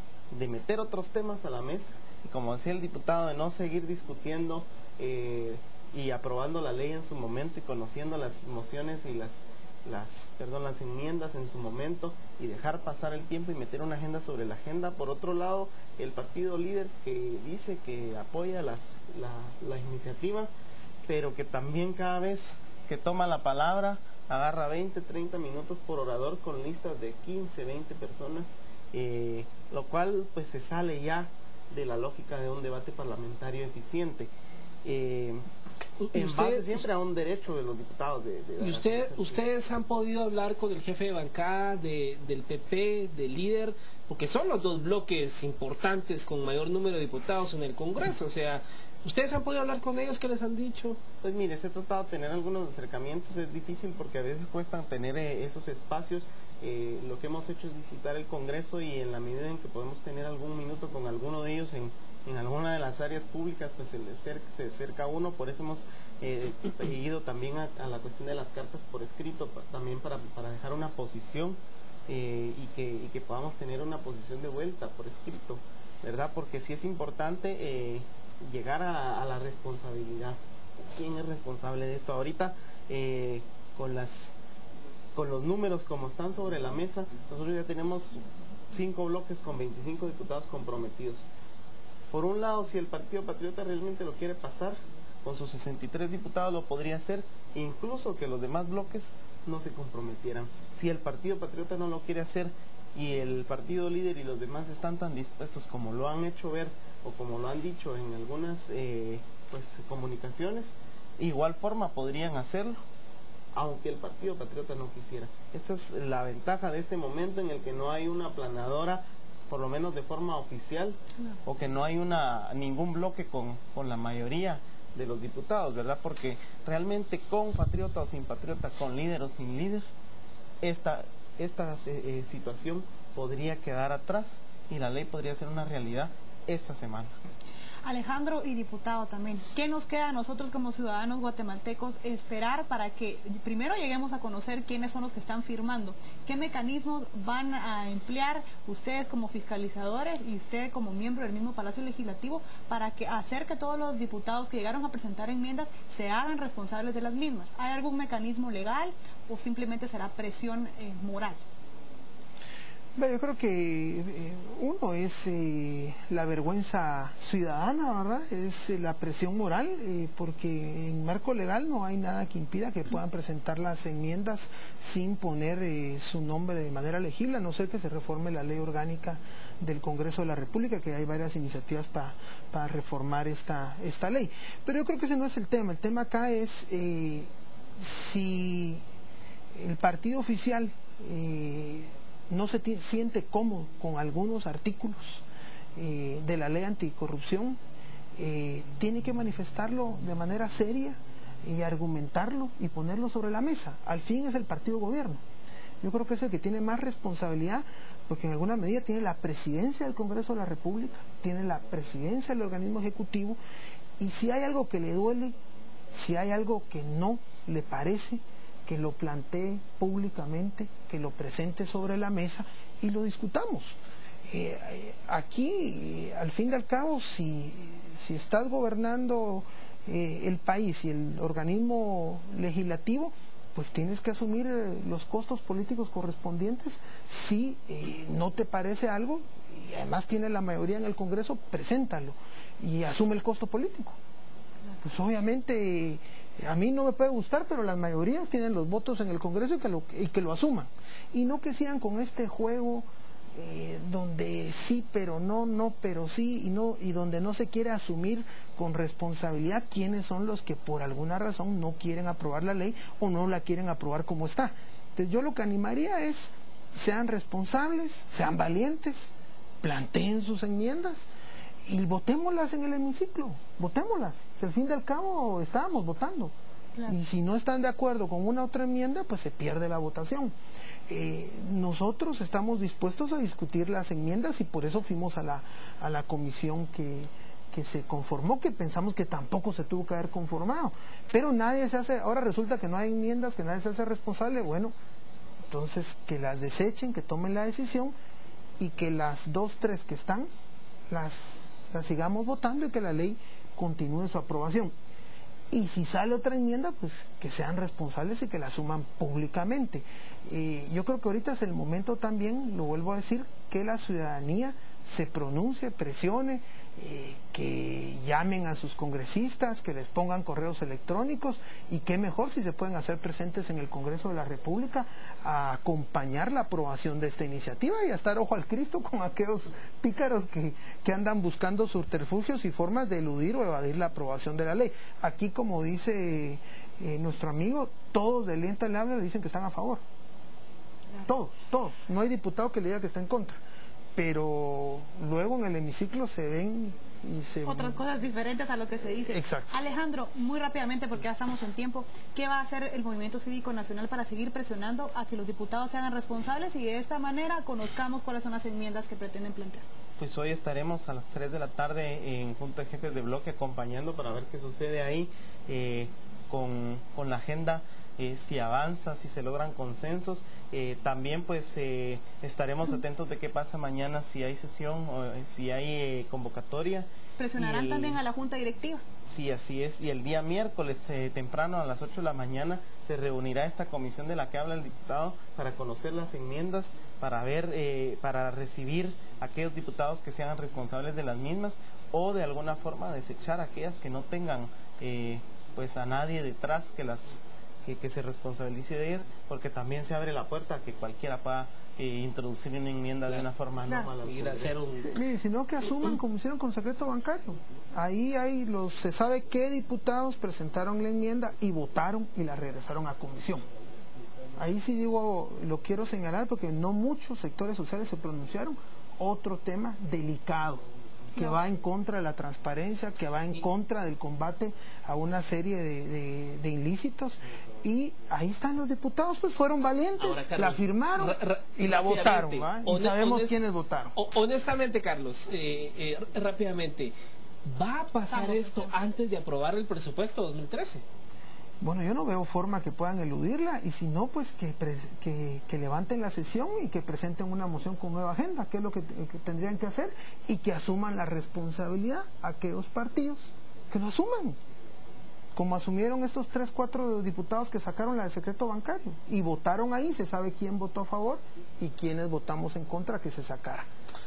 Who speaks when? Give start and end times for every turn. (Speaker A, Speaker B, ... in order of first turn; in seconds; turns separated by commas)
Speaker A: 0.3-20.5, Speaker A: 21.1-34.3, Speaker A: 34.8-35.4, Speaker B: 36.0-36.8, Speaker A: 36.1-39.4, Speaker B: 38.6-51.0, Speaker A: 51.2-80.4, Speaker A: 80.9-84.3, Speaker A: 85.1-91.3, Speaker A: 92.1-112.8, Speaker A: 113.5-129.8, Speaker A: 130.6-137.1, Speaker C: 137.8-161.4, Speaker D: 162.9-188.8, Speaker D: 189.6-195.2, Speaker D: 195.8-197.6, Speaker D: 198.2-205.2, Speaker D: 205.8-213.4, Speaker D: 214.0-215.3, Speaker D: 215.9-223.8, Speaker D: 224.3-244.0, Speaker D: 244.8-271.1, Speaker D: 271.6-276.3, Speaker D: 276.9-280.3, Speaker D: 280.9-294.7, Speaker D: 295.5-297.9, Speaker D: 298.6-300.3, Speaker D: 300.9-304.7, Speaker D: 305.5-339.8, Speaker D: 341.1-343.4, Speaker D: 343.9-347.8, Speaker C: 347.4-359.6, Speaker D: 348.9-349.5, Speaker A: 360.0-378.0, Speaker C: 377.2-378.8, Speaker A: 379.1-404.6, Speaker B: 404.0-404.9, Speaker D: 404.8-413.4, Speaker D: 414.4-420.6, Speaker D: 421.1-433.9, Speaker B: 430.0-433.4, Speaker B: 433.9-436.9, Speaker B: 437.4-440.8, Speaker C: 438.1-438.7, Speaker D: 441.6-454.4, Speaker D: 455.3-463.6